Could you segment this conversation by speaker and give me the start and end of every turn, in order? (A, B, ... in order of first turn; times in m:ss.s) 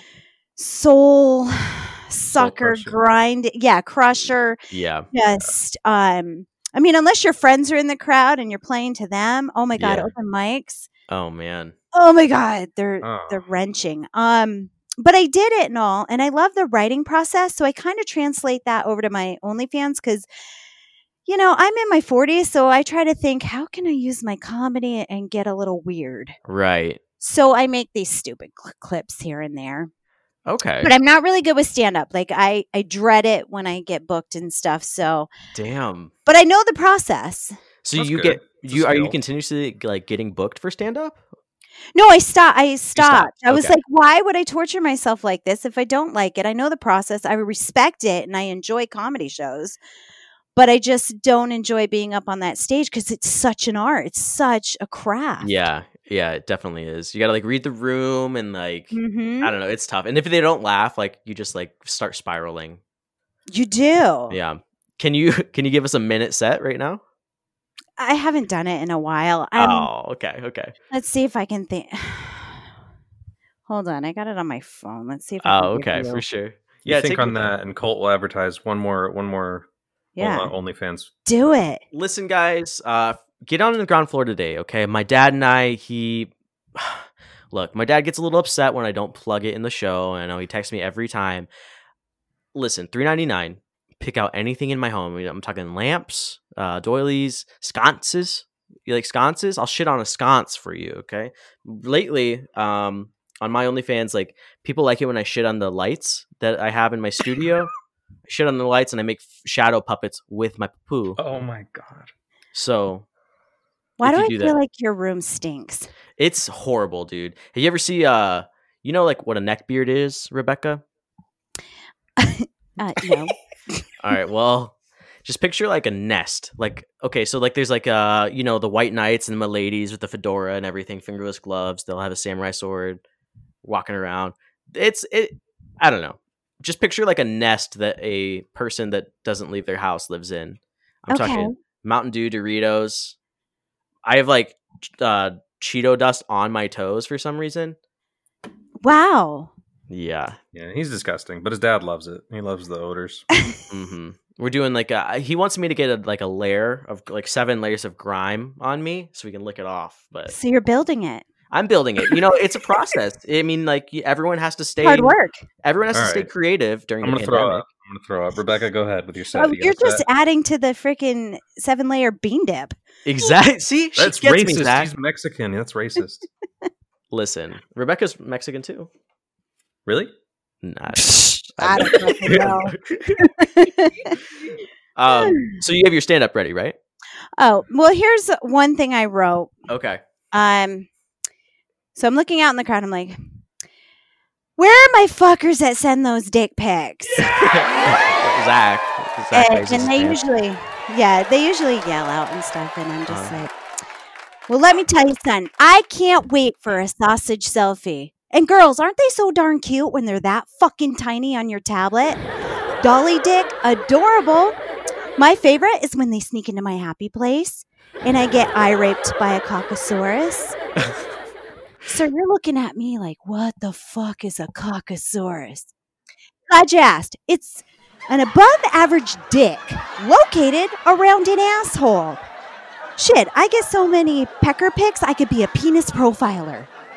0:00.6-0:04.6 A
0:02.4-0:03.0 B
0:04.7-0:05.1 C
0:05.1-0:10.9 A
0:09.8-0:10.1 C
0:11.1-0:11.8 C
0:11.9-0:20.3 A
0:13.0-0:13.4 B
0:21.3-0:26.4 A
0:26.5-0:27.0 C
0:27.2-0:29.9 A
0:30.5-0:30.9 C
0:30.8-0:35.3 A
0:35.5-0:36.1 C
0:36.3-0:37.6 A
0:37.8-0:41.2 C
0:38.0-0:39.2 B
0:42.0-0:49.8 A
0:43.0-0:43.8 C
0:50.6-0:55.6 A
0:55.4-1:02.8 C
0:58.9-0:59.5 A
1:03.5-1:04.4 A
1:04.3-1:07.0 C
1:08.0-1:09.9 A
1:09.6-1:10.7 C
1:10.9-1:12.6 A
1:13.7-1:16.2 A
1:15.4-1:17.5 C
1:16.8-1:19.7 B
1:20.2-1:20.5 A
1:20.2-1:21.1 B
1:21.3-1:21.8 A
1:21.9-1:31.5 C
1:32.5-1:47.7 C
1:48.3-1:51.2 C
1:51.2-1:52.1 B
1:52.5-1:53.1 C
1:54.0-1:55.9 A
1:54.0-1:54.6 C
1:56.2-2:00.8 C
2:02.2-2:03.8 A
2:04.0-2:13.0 C
2:13.6-2:23.2 C
2:21.1-2:21.5 A
2:24.0-2:27.8 C
2:28.8-2:29.5 A
2:29.9-2:30.4 C
2:30.5-2:33.2 B
2:33.7-2:40.4 C
2:40.3-2:41.3 A
2:41.5-2:47.6 C
2:44.8-2:45.4 A
2:45.9-2:46.3 B
2:47.0-2:50.0 B
2:49.3-2:52.8 A
2:53.0-2:54.9 C
2:54.0-2:56.3 B
2:57.1-2:58.9 C
3:00.6-3:03.3 C
3:01.0-3:04.2 A
3:05.0-3:06.8 C
3:05.1-3:05.6 A
3:07.4-3:09.5 A
3:09.7-3:10.0 C
3:10.3-3:10.9 A
3:12.0-3:13.2 A
3:14.6-3:17.3 A
3:17.2-3:20.2 C
3:19.3-3:23.5 A
3:23.1-3:23.4 C
3:24.5-3:32.2 A
3:32.8-3:34.6 A
3:35.2-3:40.6 A
3:41.9-3:45.7 A
3:46.5-3:52.2 A
3:53.0-3:56.7 A